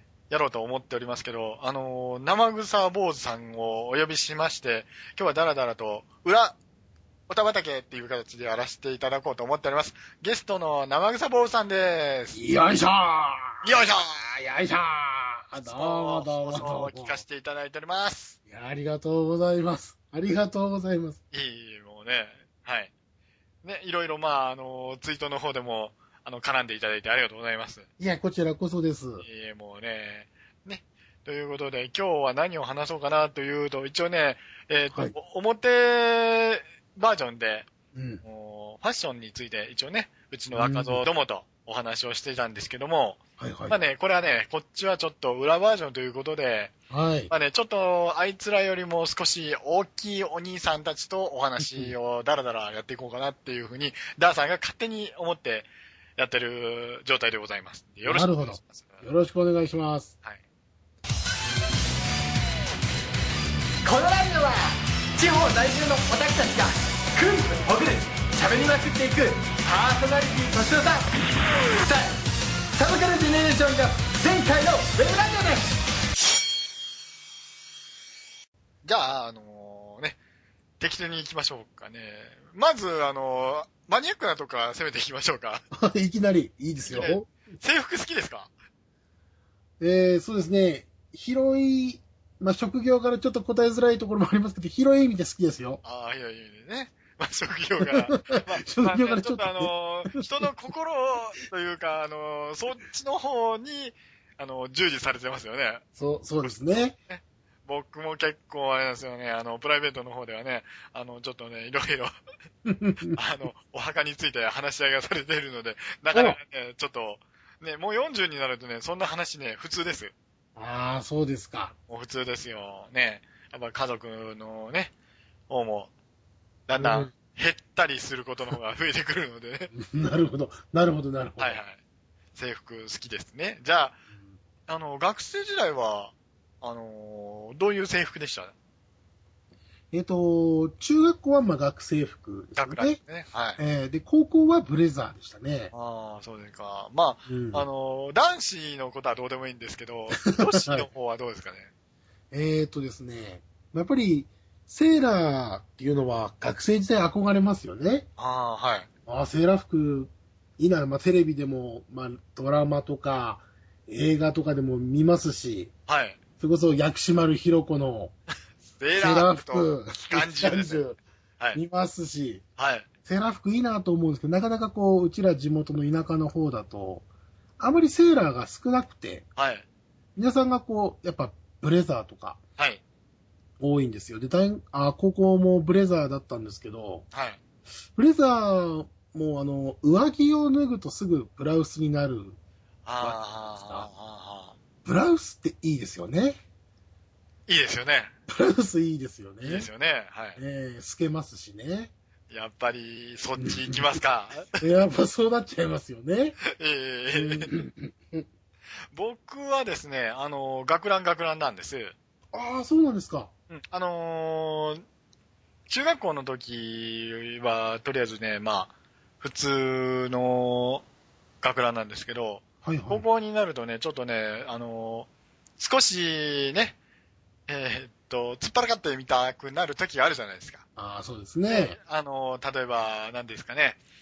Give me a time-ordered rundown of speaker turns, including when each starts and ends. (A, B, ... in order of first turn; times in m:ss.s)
0:00.3-0:06.6 A
0:07.3-0:12.4 A
0:12.3-0:17.2 B
0:13.6-0:14.2 A
0:15.6-0:18.4 A
0:18.5-0:21.2 B
0:21.3-0:22.9 A
0:23.6-0:27.9 A
0:28.0-0:29.2 B
0:29.2-0:37.7 A
0:37.9-0:38.2 B
0:38.2-0:46.7 A
0:40.5-0:41.0 B
0:43.4-0:43.8 B
0:46.9-0:47.3 B
0:47.3-0:59.0 A
0:51.6-0:51.9 B
0:58.0-1:00.1 B
1:03.8-1:11.1 C
1:11.7-1:12.2 C
1:12.7-1:15.7 C
1:18.8-1:20.2 A
1:20.8-1:25.6 A
1:25.7-1:27.3 B
1:26.8-1:28.5 A
1:29.8-1:35.8 B
1:35.8-1:45.8 A
1:37.9-1:40.4 B
1:46.0-1:47.0 B
1:46.4-1:52.1 A
1:52.6-1:53.2 B
1:53.1-2:00.1 A
1:56.1-1:56.4 B
2:00.6-2:01.7 B
2:01.9-2:04.9 A
2:05.5-2:05.9 A
2:06.7-2:09.7 A
2:06.8-2:07.1 B
2:09.7-2:11.6 B
2:11.4-2:11.8 A
2:12.3-2:14.0 A
2:14.7-2:18.5 A
2:19.9-2:23.0 B
2:22.6-2:23.6 A
2:23.6-2:25.7 B
2:25.7-2:31.7 A
2:27.3-2:27.6 B
2:30.2-2:30.9 B
2:32.3-2:38.1 B
2:38.2-2:38.9 A
2:39.1-2:45.7 B
2:45.9-2:46.2 A
2:46.4-2:48.1 B
2:48.6-2:50.9 A
2:48.9-2:51.0 B
2:51.5-2:52.4 B
2:52.6-2:52.9 A
2:53.0-2:57.0 B
2:57.6-2:59.3 B
2:59.4-2:59.6 A
3:00.2-3:02.4 B
3:03.6-3:07.0 B
3:07.1-3:07.4 A
3:08.0-3:12.4 B
3:12.8-3:14.6 A
3:13.0-3:13.9 B
3:14.8-3:16.4 B
3:17.5-3:18.1 A
3:18.3-3:19.7 B
3:19.4-3:20.4 A
3:20.4-3:21.9 B
3:22.3-3:24.6 A
3:23.4-3:23.8 B
3:24.6-3:26.4 B
3:26.5-3:27.5 A
3:27.1-3:28.2 B
3:28.9-3:31.9 A
3:32.3-3:33.3 B
3:33.5-3:34.8 A
3:35.7-3:40.8 A
3:41.4-3:46.8 A
3:42.6-3:43.0 B
3:47.5-3:50.6 A
3:50.8-3:51.8 B
3:51.5-3:53.8 A